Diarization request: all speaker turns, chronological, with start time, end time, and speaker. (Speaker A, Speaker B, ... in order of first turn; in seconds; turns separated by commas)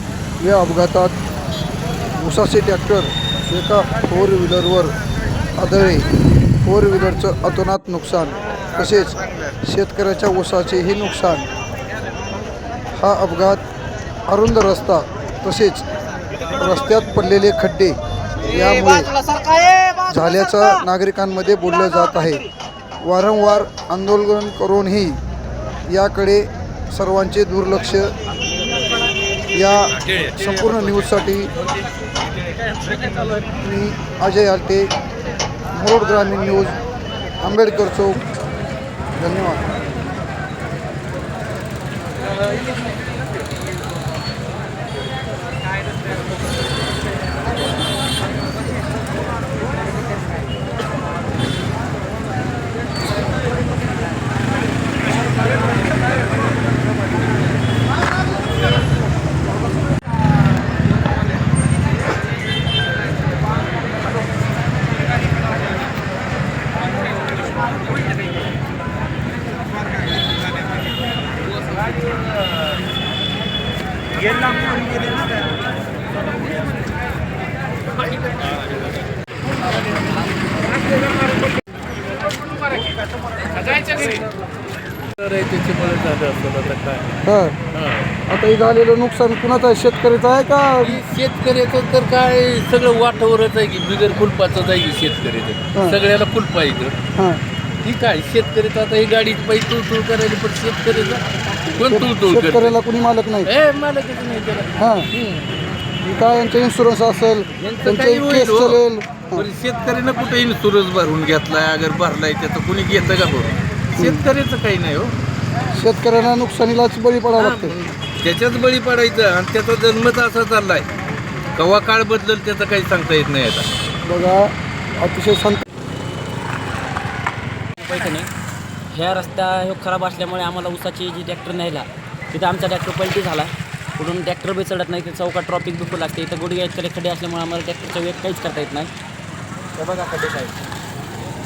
Speaker A: 0.4-1.1, Speaker A: 2.2-4.9, Speaker A: 5.6-6.1, Speaker A: 6.6-11.5, Speaker A: 12.9-13.6, Speaker A: 14.3-15.8, Speaker A: 16.6-19.1, Speaker A: 20.1-22.4, Speaker A: 23.0-25.2, Speaker A: 25.9-28.1, Speaker A: 29.5-31.5, Speaker B: 30.1-30.4, Speaker A: 33.6-34.9, Speaker A: 35.7-36.8, Speaker A: 37.4-38.2, Speaker A: 39.2-39.8, Speaker B: 83.5-84.2, Speaker B: 85.2-87.2, Speaker A: 87.2-87.6, Speaker B: 87.7-88.1, Speaker A: 88.3-91.0, Speaker B: 90.8-97.0, Speaker A: 97.1-97.4, Speaker B: 97.8-102.8, Speaker A: 101.8-103.5, Speaker B: 103.5-105.5, Speaker A: 104.8-105.1, Speaker A: 106.0-109.5, Speaker B: 107.6-108.8, Speaker B: 109.3-115.1, Speaker A: 114.0-114.2, Speaker A: 115.7-117.7, Speaker B: 117.4-120.9, Speaker B: 121.5-123.7, Speaker A: 124.0-125.6, Speaker C: 127.8-128.3, Speaker C: 128.9-138.9, Speaker C: 139.7-140.6